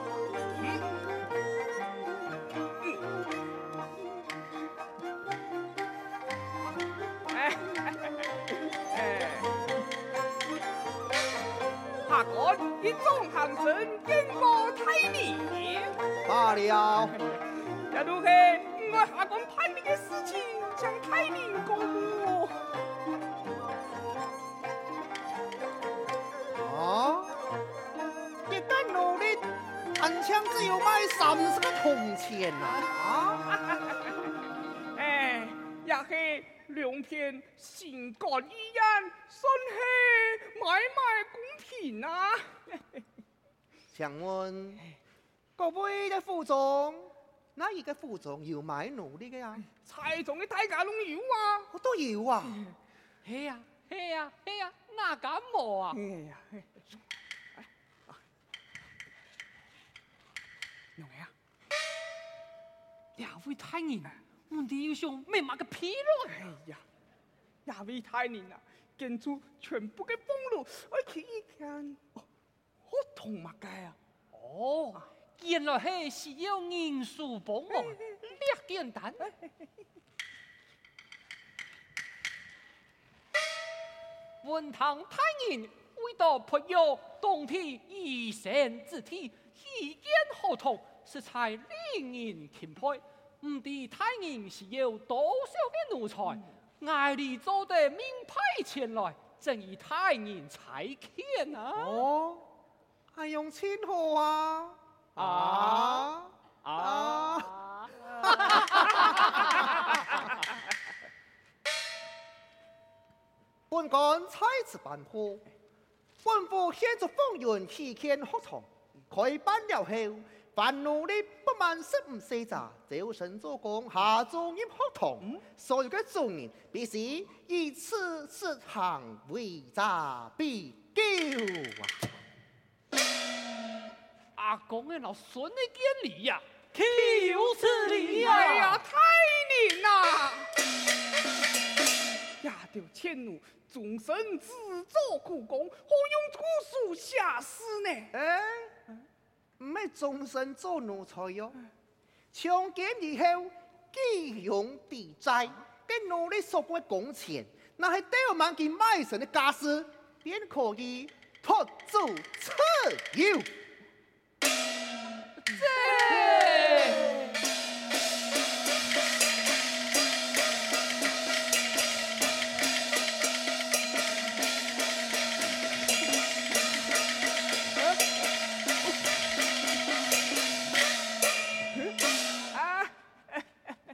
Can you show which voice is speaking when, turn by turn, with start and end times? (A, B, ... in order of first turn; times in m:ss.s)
0:07.3-0:09.5 A
0:12.0-0:15.9 A
0:16.2-0:17.2 B
0:17.9-0:22.6 A
0:26.6-0:27.4 B
0:28.5-0:33.4 B
0:33.5-0:34.1 A
0:35.0-0:43.0 A
0:43.9-0:44.8 B
0:45.6-0:49.6 B
0:49.8-0:51.7 A
0:51.7-0:52.6 B
0:53.2-0:56.0 C
0:55.9-0:56.9 A
1:01.0-1:01.3 A
1:03.2-1:06.4 C
1:06.3-1:06.8 A
1:07.6-1:12.2 A
1:12.8-1:14.0 A
1:14.3-1:19.3 C
1:24.4-1:42.0 C
1:41.7-1:42.5 B
1:43.1-1:47.5 B
1:45.2-1:46.0 C
1:46.7-1:47.3 C
1:48.0-1:50.0 B
1:48.5-1:48.8 C
1:53.7-1:55.4 B
1:56.2-2:12.0 B
2:14.4-2:18.8 C
2:17.0-2:20.5 A
2:22.4-2:28.1 A
2:28.1-2:28.7 B
2:29.6-2:31.6 B
2:32.3-2:43.5 B
2:45.5-2:47.0 A
2:45.8-2:47.1 C
3:02.5-3:03.4 A